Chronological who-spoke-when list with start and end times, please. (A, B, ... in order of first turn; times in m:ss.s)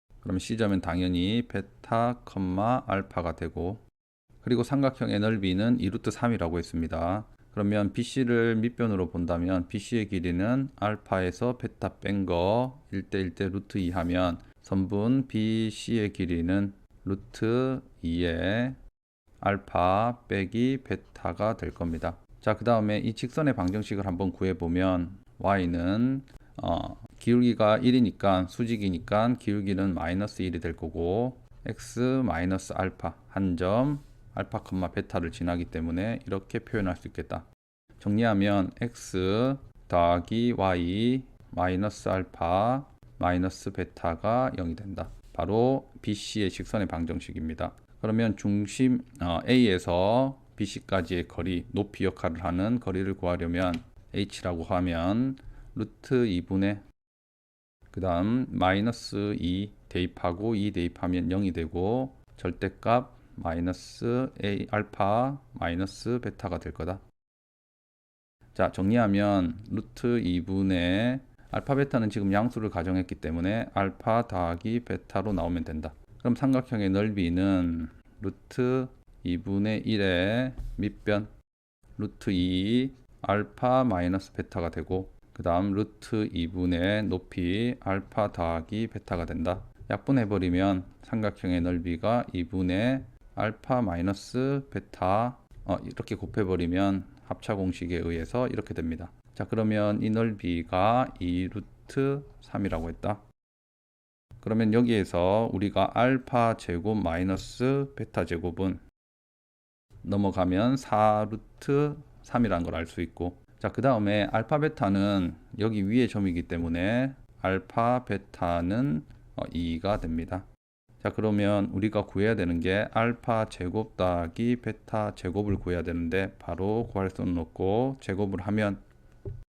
0:00.2-0:03.8 A
0:04.4-0:18.8 A
0:19.4-0:37.4 A
0:38.0-0:56.8 A
0:57.9-1:07.0 A
1:08.5-1:21.3 A
1:22.0-1:43.2 A
1:44.4-1:48.8 A
1:50.0-2:00.4 A
2:01.0-2:08.8 A